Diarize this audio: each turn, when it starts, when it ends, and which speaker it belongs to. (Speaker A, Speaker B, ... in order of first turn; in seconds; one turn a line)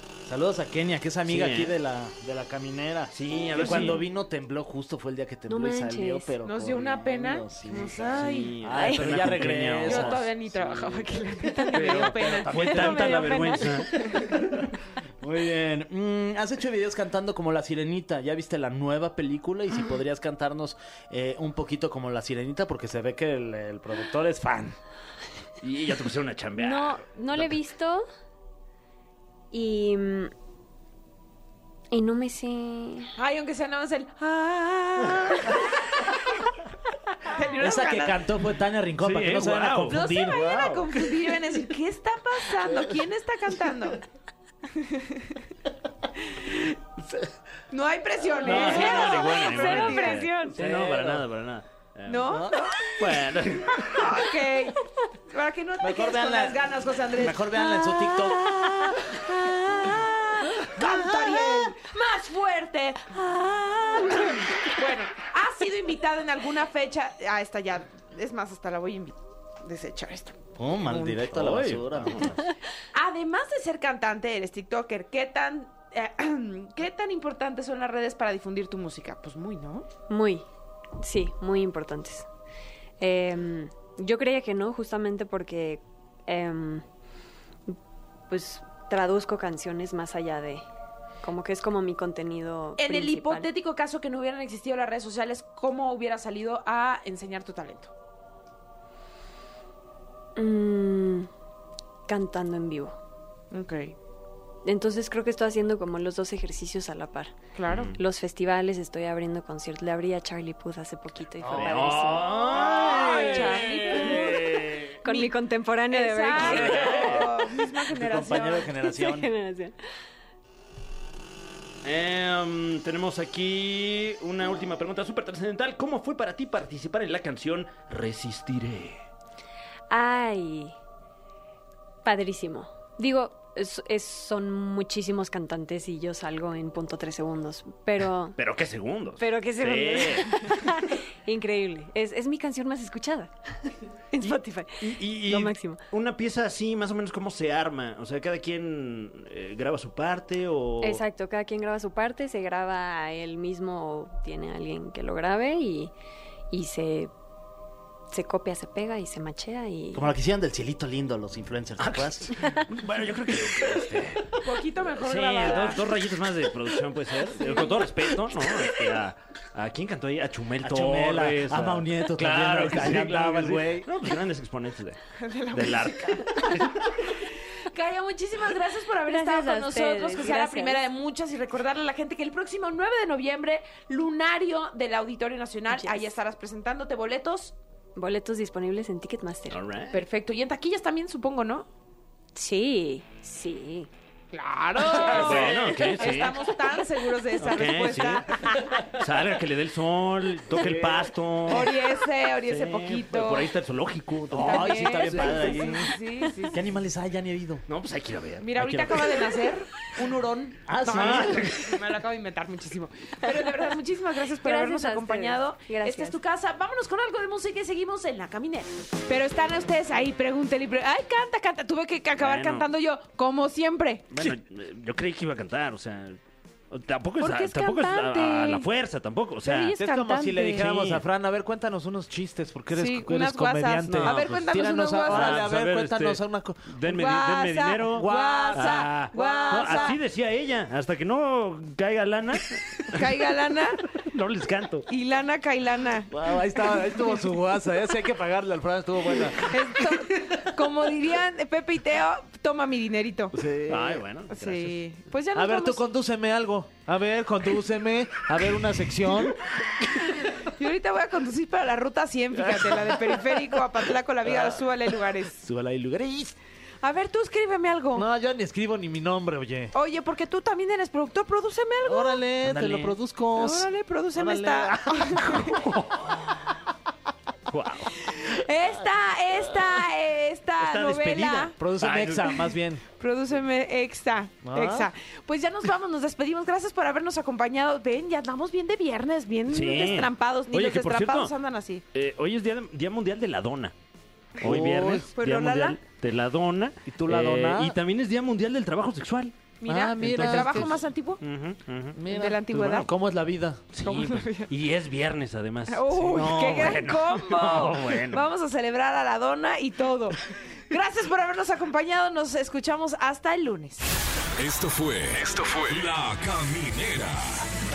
Speaker A: 0.2-10.3
Speaker B: 1.3-1.7
Speaker B: 3.1-4.1
Speaker C: 5.5-6.3
Speaker D: 6.4-8.6
Speaker B: 7.7-11.1
Speaker D: 9.9-14.3
Speaker A: 11.7-13.2
Speaker B: 11.7-14.0
Speaker C: 12.6-13.9
Speaker A: 15.2-24.8
Speaker B: 25.6-27.5
Speaker C: 26.6-28.1
Speaker C: 29.5-30.3
Speaker C: 31.9-33.1
Speaker D: 33.2-36.4
Speaker D: 37.3-38.2
Speaker A: 37.6-40.7
Speaker B: 39.0-40.8
Speaker D: 39.9-44.0
Speaker D: 44.7-45.4
Speaker D: 46.2-46.8
Speaker A: 47.0-47.3
Speaker D: 47.7-50.4
Speaker B: 48.4-54.2
Speaker C: 48.6-50.6
Speaker A: 50.5-51.2
Speaker D: 52.1-53.1
Speaker A: 52.3-52.7
Speaker D: 53.9-57.9
Speaker A: 55.8-56.6
Speaker A: 57.1-58.5
Speaker C: 57.7-60.1
Speaker D: 59.5-71.2
Speaker A: 60.8-61.7
Speaker A: 70.6-72.5
Speaker B: 71.1-72.4
Speaker D: 72.9-79.9
Speaker C: 80.1-80.5
Speaker C: 81.0-82.3
Speaker C: 83.0-86.8
Speaker C: 88.3-90.6
Speaker C: 91.2-93.5
Speaker D: 92.8-97.9
Speaker C: 100.4-101.3
Speaker C: 102.1-103.0
Speaker D: 103.5-104.0
Speaker C: 104.7-107.4
Speaker D: 107.5-108.0
Speaker B: 107.7-108.0
Speaker C: 107.9-112.7
Speaker A: 111.4-113.2
Speaker B: 111.5-114.9
Speaker D: 112.4-114.4
Speaker D: 115.0-115.3
Speaker C: 115.0-117.0
Speaker D: 115.9-118.7
Speaker B: 116.4-117.5
Speaker A: 116.8-119.3
Speaker C: 118.8-119.8
Speaker B: 121.8-129.0
Speaker C: 129.9-130.8
Speaker C: 132.1-138.4
Speaker B: 138.4-140.6
Speaker C: 139.2-143.3
Speaker C: 144.1-145.8
Speaker B: 144.8-151.0
Speaker C: 150.8-155.9
Speaker C: 156.5-157.1
Speaker C: 158.1-160.1
Speaker A: 159.9-162.3
Speaker B: 161.8-164.4
Speaker D: 164.4-165.9
Speaker B: 164.9-177.1
Speaker D: 167.4-167.8
Speaker A: 170.6-173.9
Speaker D: 175.2-187.6
Speaker C: 179.1-180.8
Speaker C: 185.7-186.1
Speaker C: 188.0-189.6
Speaker B: 189.5-190.0
Speaker D: 189.9-191.7
Speaker C: 192.3-193.9
Speaker D: 194.3-198.5
Speaker B: 194.8-196.5
Speaker B: 197.4-201.9
Speaker A: 200.5-201.1
Speaker D: 201.5-203.5
Speaker B: 202.4-205.5
Speaker A: 204.3-205.9
Speaker D: 204.4-206.6
Speaker A: 206.5-207.7
Speaker B: 207.7-209.2
Speaker D: 208.4-224.0
Speaker A: 208.6-208.9
Speaker A: 210.6-211.5
Speaker B: 210.8-211.9
Speaker C: 214.4-216.2
Speaker B: 222.2-222.7
Speaker B: 224.1-226.2
Speaker B: 226.7-229.8
Speaker D: 227.2-228.7
Speaker D: 229.4-230.7
Speaker A: 229.8-236.8
Speaker B: 230.5-231.1
Speaker D: 232.7-235.4
Speaker B: 233.9-234.4
Speaker B: 235.1-243.1
Speaker D: 236.8-240.0
Speaker A: 237.9-239.9
Speaker D: 242.9-243.8
Speaker B: 243.9-244.9
Speaker D: 244.9-246.1
Speaker A: 246.1-250.4
Speaker D: 249.4-253.3
Speaker A: 253.3-254.0
Speaker B: 253.7-254.8
Speaker D: 254.3-255.8
Speaker A: 255.3-259.4
Speaker D: 260.2-265.4
Speaker A: 265.4-266.4
Speaker D: 266.8-268.1
Speaker A: 267.9-269.7
Speaker D: 269.7-272.2
Speaker A: 271.9-275.6
Speaker B: 272.4-273.0
Speaker D: 273.4-275.6
Speaker B: 275.3-276.3
Speaker B: 277.5-278.0
Speaker D: 278.0-281.6
Speaker B: 280.6-282.5
Speaker A: 281.3-282.8
Speaker D: 282.9-291.8
Speaker A: 284.4-284.9
Speaker B: 289.5-291.4
Speaker B: 291.9-293.7
Speaker B: 294.4-299.4
Speaker A: 294.4-295.2
Speaker D: 295.1-295.8
Speaker A: 296.9-297.8
Speaker D: 299.6-301.2
Speaker A: 299.6-300.8
Speaker B: 300.0-302.0
Speaker A: 301.9-303.7
Speaker D: 302.1-302.9
Speaker B: 303.7-308.3
Speaker D: 303.8-304.5
Speaker D: 305.7-313.9
Speaker A: 306.2-306.8
Speaker E: 314.4-317.5